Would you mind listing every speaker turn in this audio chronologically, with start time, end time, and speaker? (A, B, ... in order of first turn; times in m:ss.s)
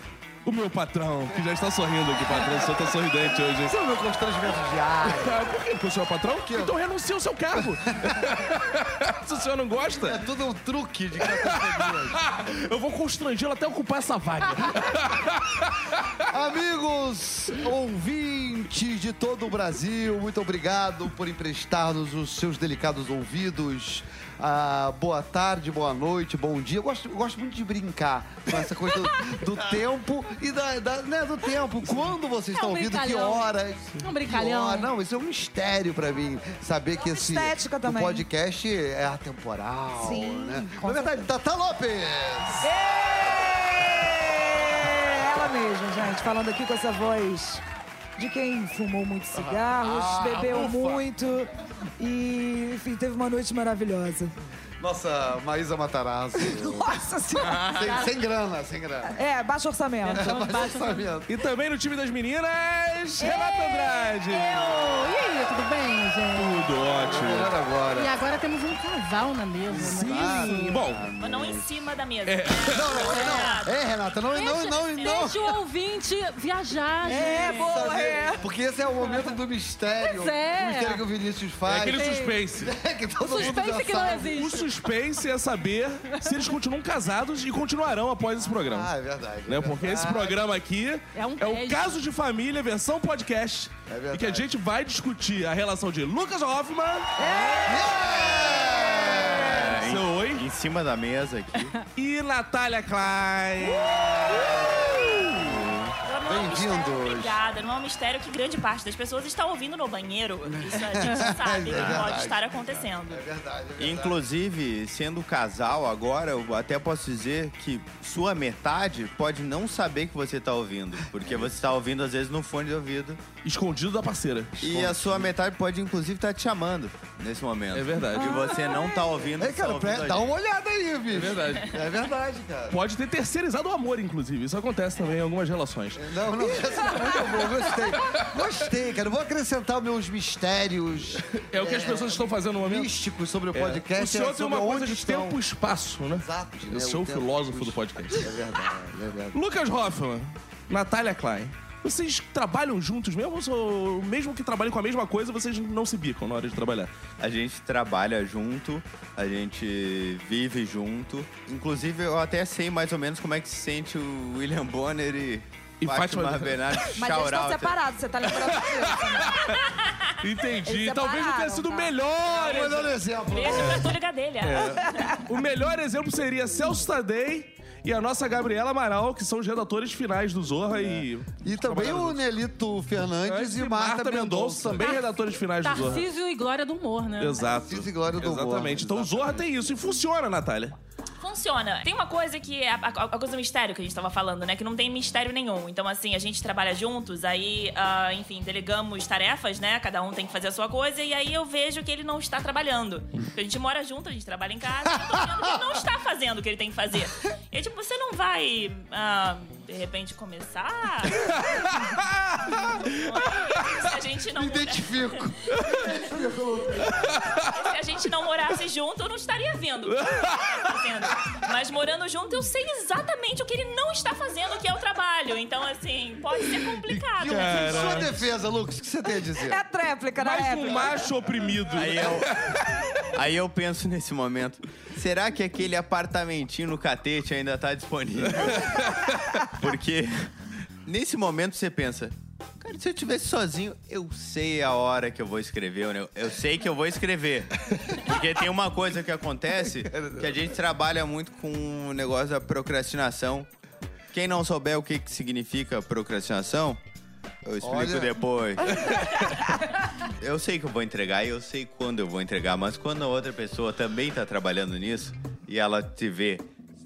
0:00.4-0:03.8 A
0:03.6-0:05.5 B
0:05.0-0:10.2 A
0:06.3-0:06.7 B
0:07.5-0:08.4 B
0:10.0-0:12.2 B
0:11.2-0:16.1 A
0:16.3-0:42.7 B
0:32.5-0:33.5 C
0:34.0-0:34.9 C
0:37.0-0:38.2 D
0:40.0-0:41.2 D
0:42.6-0:47.6 D
0:48.2-0:54.3 D
0:49.3-0:51.1 B
0:54.8-0:56.9 B
0:56.4-0:57.9 D
0:57.4-0:58.0 E
0:57.6-0:59.2 B
0:59.1-1:00.3 D
1:00.0-1:01.3 B
1:00.1-1:01.1 C
1:01.3-1:04.7 A
1:03.2-1:06.9 C
1:06.4-1:07.5 A
1:06.9-1:08.1 B
1:07.9-1:10.8 C
1:09.7-1:11.7 B
1:09.7-1:11.1 A
1:11.2-1:13.8 F
1:12.3-1:12.9 A
1:12.7-1:15.4 B
1:12.9-1:13.6 C
1:14.3-1:18.0 C
1:17.0-1:24.6 B
1:17.0-1:18.4 D
1:20.0-1:21.0 C
1:21.6-1:22.7 A
1:21.8-1:22.4 C
1:23.2-1:24.9 C
1:24.2-1:28.9 A
1:26.1-1:26.4 C
1:28.4-1:30.4 B
1:29.5-1:37.2 A
1:31.1-1:32.0 C
1:33.9-1:34.5 B
1:37.2-1:39.3 D
1:37.6-1:39.8 B
1:39.4-1:41.7 E
1:39.6-1:40.4 A
1:41.9-1:45.3 A
1:43.7-1:47.4 B
1:46.0-1:53.2 F
1:50.4-1:54.2 B
1:51.7-1:52.1 E
1:53.8-2:03.2 E
2:01.2-2:01.5 B
2:03.4-2:05.2 A
2:04.6-2:10.3 E
2:07.7-2:08.4 A
2:08.2-2:09.0 D
2:09.3-2:12.8 B
2:11.1-2:11.8 A
2:12.7-2:16.1 A
2:16.0-2:25.4 B
2:16.9-2:17.2 D
2:18.0-2:18.3 A
2:21.3-2:22.9 A
2:23.5-2:28.4 A
2:26.2-2:29.4 B
2:29.3-2:36.9 A
2:37.2-2:47.8 E
2:45.8-2:47.0 A
2:47.0-2:49.6 D
2:48.3-2:52.9 A
2:50.6-2:52.0 D
2:52.2-2:55.2 F
2:52.3-2:53.9 B
2:53.5-2:53.9 A
2:54.4-3:02.2 A
3:00.8-3:05.0 B
3:03.2-3:06.1 A
3:05.6-3:07.5 C
3:07.2-3:10.8 A
3:07.5-3:09.6 B
3:11.2-3:31.3 F
3:31.2-3:33.7 A
3:32.8-3:35.8 F
3:34.3-3:37.3 B
3:36.9-3:37.5 A
3:37.5-3:48.3 F
3:39.9-3:40.7 A
3:46.7-3:49.6 B
3:47.3-3:48.1 A
3:49.3-3:51.1 D
3:50.2-3:52.6 A
3:51.7-3:52.4 E
3:53.1-4:00.3 E
3:58.4-3:59.1 A
4:00.8-4:13.5 E
4:09.7-4:10.5 B
4:14.1-4:16.8 E
4:17.4-4:26.4 E
4:17.6-4:18.2 B